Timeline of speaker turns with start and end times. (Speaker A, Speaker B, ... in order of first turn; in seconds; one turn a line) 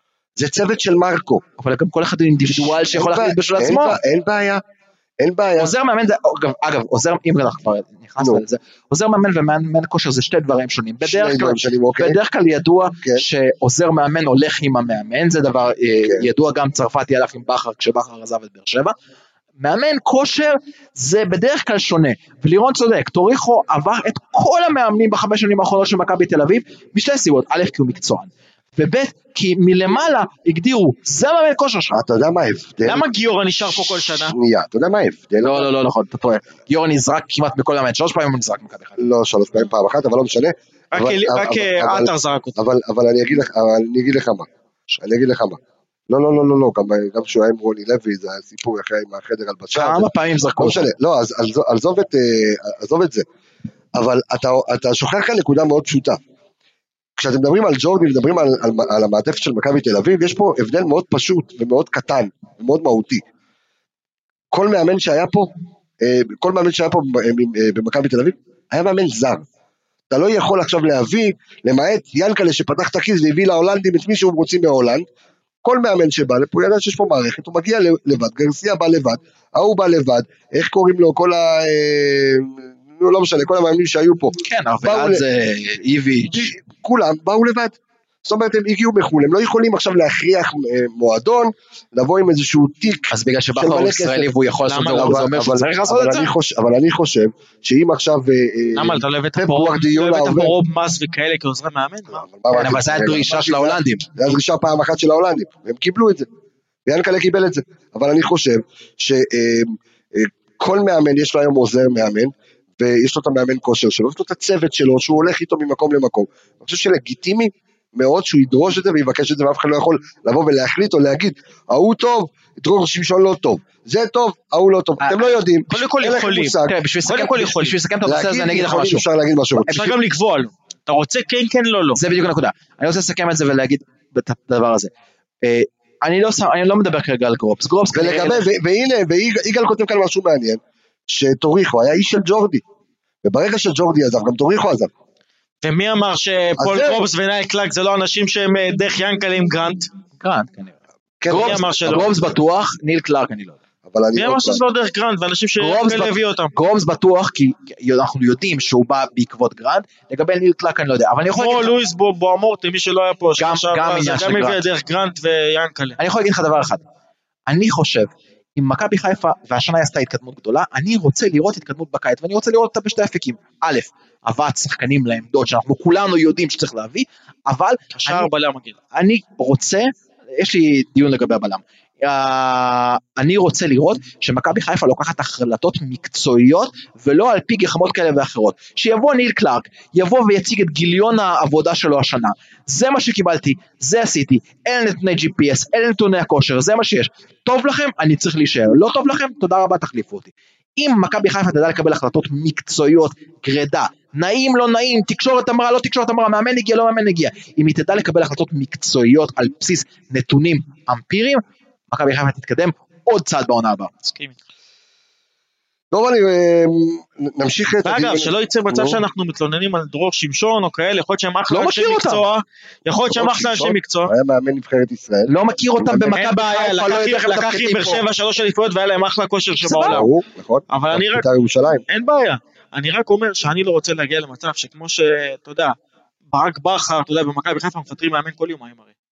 Speaker A: 0.3-1.4
Speaker B: 1.6-4.0
Speaker A: 2.5-4.6
Speaker A: 5.2-5.7
Speaker B: 5.6-18.9
Speaker A: 11.0-12.2
Speaker B: 19.6-32.0
Speaker A: 31.9-33.0
Speaker C: 32.8-34.3
Speaker A: 33.6-35.7
Speaker B: 35.4-39.0
Speaker A: 39.0-53.2
Speaker C: 40.9-42.5
Speaker B: 49.7-50.9
Speaker A: 53.9-56.2
Speaker A: 57.2-63.2
Speaker A: 64.5-69.4
Speaker A: 70.1-75.0
Speaker A: 75.6-85.2
Speaker B: 84.4-86.5
Speaker A: 86.3-94.3
Speaker B: 93.1-96.3
Speaker C: 94.7-95.2
Speaker A: 94.9-100.5
Speaker C: 98.8-102.2
Speaker A: 102.2-106.2
Speaker B: 102.5-104.1
Speaker A: 106.8-126.7
Speaker C: 125.7-127.8
Speaker B: 126.6-129.0
Speaker A: 128.0-129.9
Speaker C: 129.7-132.0
Speaker B: 131.9-134.9
Speaker B: 135.4-138.4
Speaker A: 137.9-142.6
Speaker A: 143.2-144.9
Speaker C: 145.6-149.9
Speaker A: 146.6-147.1
Speaker B: 150.2-150.7
Speaker A: 151.2-152.1
Speaker B: 151.3-153.6
Speaker C: 151.3-152.1
Speaker A: 153.8-154.6
Speaker C: 154.2-156.5
Speaker B: 155.6-161.7
Speaker C: 161.3-166.0
Speaker B: 163.4-164.6
Speaker B: 166.0-166.8
Speaker B: 167.5-178.3
Speaker C: 177.9-178.8
Speaker B: 178.9-214.2
Speaker A: 215.9-219.0
Speaker C: 217.8-224.1
Speaker B: 221.5-222.2
Speaker A: 223.1-225.3
Speaker B: 225.3-228.0
Speaker A: 225.8-226.1
Speaker C: 226.1-230.1
Speaker B: 229.6-230.0
Speaker A: 229.8-231.8
Speaker C: 230.7-231.2
Speaker C: 231.9-235.7
Speaker C: 236.3-238.9